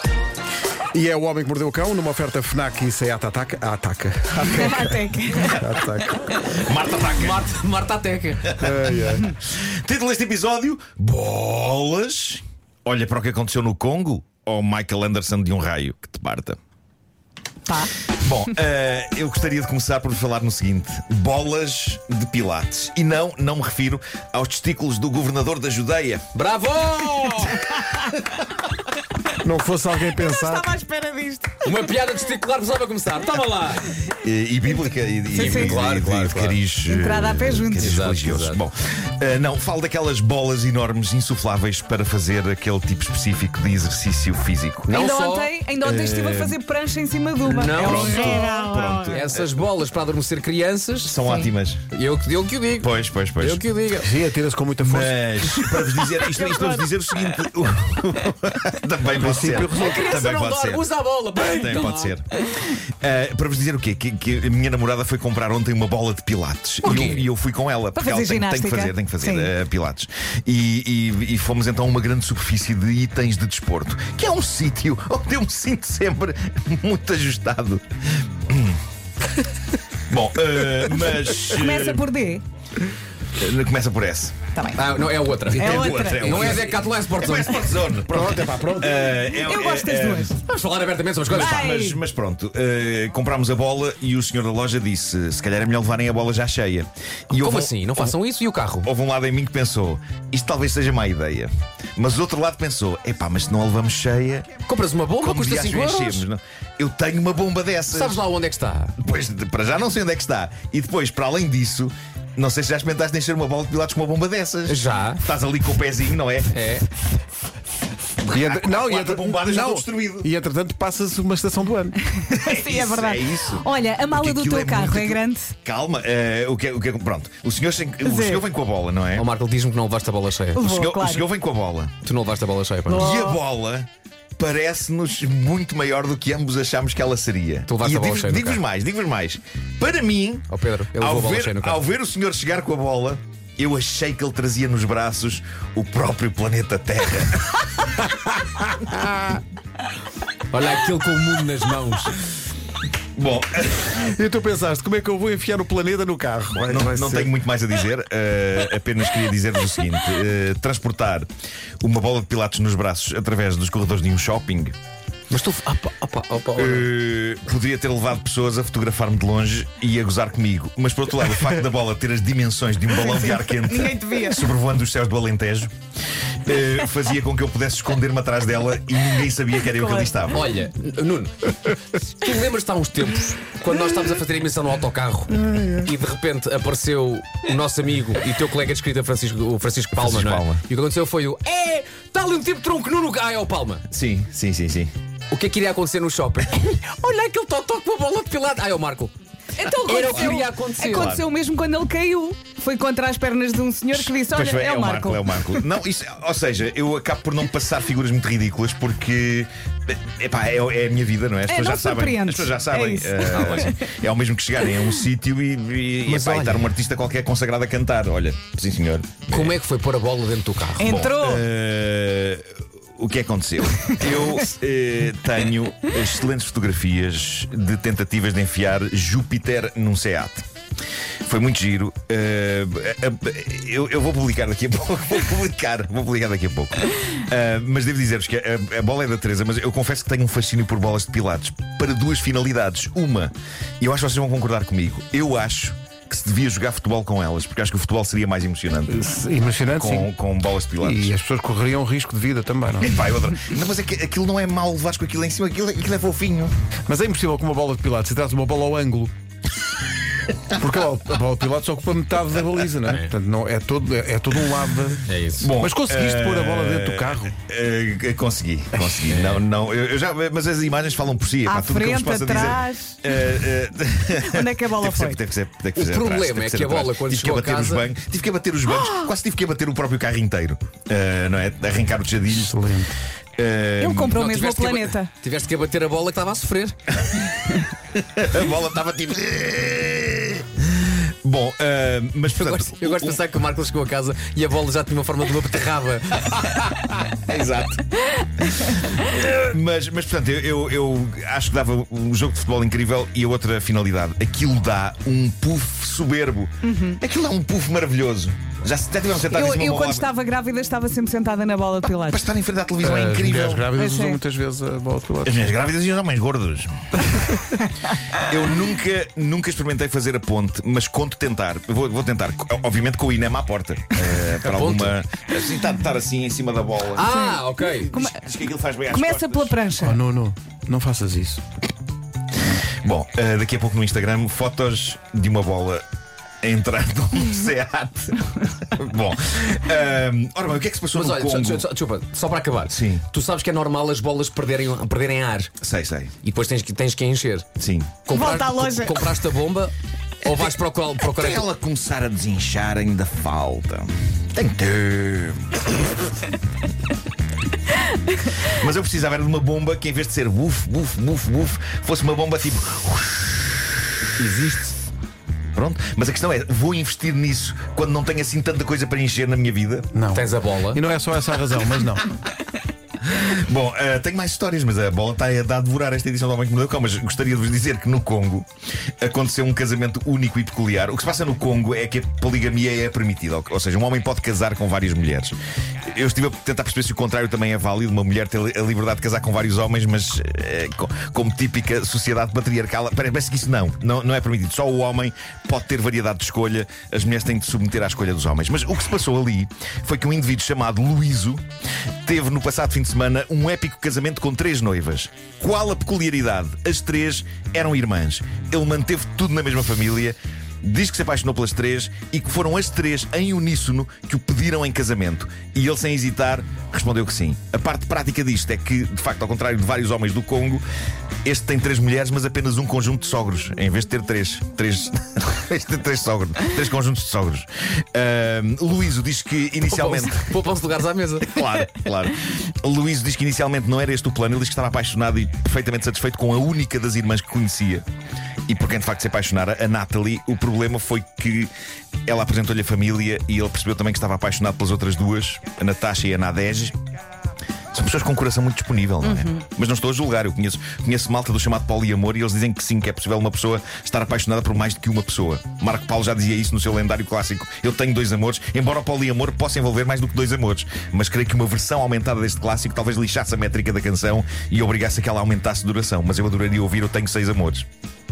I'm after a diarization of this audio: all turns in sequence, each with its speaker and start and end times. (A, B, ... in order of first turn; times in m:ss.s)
0:00.9-0:05.0 A
0:04.4-0:06.2 B
0:05.5-0:06.2 A
0:06.6-0:07.5 C
0:07.1-0:08.5 D
0:08.5-0:16.6 C
0:08.6-0:09.3 A
0:17.7-0:18.1 B
0:18.2-0:26.3 C
0:26.3-0:27.7 D
0:29.4-0:30.7 A
0:30.1-0:31.8 B
0:31.6-0:34.0 D
0:34.2-0:45.0 C
0:35.3-0:35.8 B
0:35.3-0:36.6 D
0:36.8-0:37.9 B
0:37.8-0:38.6 D
0:44.9-0:45.5 D
0:44.9-0:49.2 B
0:45.8-0:46.6 C
0:47.4-0:51.2 D
0:47.8-0:49.4 C
0:51.0-0:51.9 C
0:51.9-0:54.1 D
0:52.8-0:53.6 C
0:54.0-0:55.4 A
0:54.8-1:00.9 C
0:55.9-0:56.8 B
0:59.2-1:00.1 A
0:59.7-1:02.1 D
1:01.4-1:18.8 C
1:06.9-1:07.2 B
1:06.9-1:07.2 D
1:07.9-1:09.5 B
1:20.1-1:22.1 C
1:21.5-1:22.4 B
1:23.4-1:24.4 C
1:24.6-1:24.9 B
1:24.8-1:27.8 D
1:25.5-1:30.4 C
1:25.6-1:26.4 B
1:28.1-1:29.0 A
1:29.3-1:30.4 B
1:30.4-1:31.6 D
1:31.3-1:38.2 C
1:31.3-1:32.0 B
1:37.3-1:38.9 D
1:38.8-1:44.5 C
1:44.7-1:46.3 D
1:45.2-1:48.2 C
1:47.9-1:48.9 D
1:49.0-1:56.5 C
1:54.7-1:55.2 D
1:56.5-1:56.9 D
1:58.2-2:00.3 C
1:58.2-2:02.0 A
2:02.3-2:05.5 B
2:02.3-2:09.3 C
2:08.0-2:08.4 B
2:09.2-2:10.6 D
2:10.6-2:11.3 B
2:10.6-2:11.9 C
2:12.0-2:13.2 D
2:12.9-2:13.4 B
2:13.0-2:27.8 C
2:17.7-2:18.6 D
2:20.5-2:21.8 D
2:28.4-2:29.4 A
2:30.5-2:32.2 D
2:33.2-2:34.0 C
2:33.9-2:37.3 A
2:36.6-2:41.3 C
2:41.8-2:44.8 C
2:45.3-2:46.9 D
2:46.6-2:55.7 C
2:52.9-2:54.5 B
2:56.4-3:00.4 C
2:59.6-3:00.2 B
3:00.3-3:13.8 D
3:05.5-3:05.8 A
3:10.0-3:10.6 C
3:13.9-3:14.9 C
3:15.3-3:19.1 D
3:19.6-3:25.6 B
3:19.7-3:21.2 D
3:20.8-3:21.3 C
3:23.9-3:39.6 C
3:31.5-3:33.8 B
3:33.2-3:33.7 D
3:36.1-3:36.7 D
3:39.3-3:40.9 D
3:40.8-3:41.4 B
3:40.8-3:50.4 C
3:43.8-3:44.2 B
3:51.3-4:09.0 C
4:08.9-4:10.1 A
4:09.7-4:11.1 C
4:10.8-4:13.0 A
4:12.8-4:16.5 C
4:16.9-4:19.1 A
4:20.6-4:25.0 A
4:22.9-4:23.1 D
4:25.1-4:25.5 D
4:25.4-4:42.6 C
4:25.6-4:27.4 A
4:29.1-4:29.4 D
4:31.5-4:33.0 B
4:34.2-4:35.2 B
4:35.8-4:37.8 D
4:42.3-4:42.9 A
4:43.4-4:44.2 C
4:43.8-4:45.1 B
4:44.1-4:46.9 D
4:47.9-4:53.2 C
4:52.3-4:56.7 D
4:57.3-4:57.8 C
4:58.7-5:10.1 C
5:06.6-5:07.0 B
5:09.3-5:12.2 B
5:11.8-5:13.7 C
5:12.8-5:15.5 A
5:13.7-5:14.2 B
5:15.2-5:16.9 C
5:18.2-5:27.2 C
5:24.4-5:25.0 D
5:27.0-5:27.9 D
5:27.1-5:28.2 B
5:27.9-5:29.6 C
5:28.9-5:30.0 B
5:29.8-5:31.4 A
5:32.8-5:35.8 C
5:36.4-5:41.7 C
5:40.9-5:45.5 D
5:42.7-5:43.1 C
5:45.6-5:46.2 C
5:46.2-5:47.5 D
5:47.6-5:48.0 C
5:48.1-5:51.5 D
5:48.1-5:49.1 B
5:51.0-5:55.6 C
5:58.5-6:03.8 C
6:04.2-6:04.8 D
6:05.6-6:09.9 C
6:09.9-6:12.1 A
6:10.1-6:10.8 D
6:13.0-6:18.5 C
6:19.0-6:25.4 C
6:25.9-6:41.4 C
6:42.0-7:00.6 C
7:01.2-7:10.4 C
7:09.7-7:11.4 D
7:11.2-7:17.8 C
7:18.5-7:21.5 C
7:22.1-7:26.8 C
7:27.7-7:47.7 C
7:29.0-7:29.4 B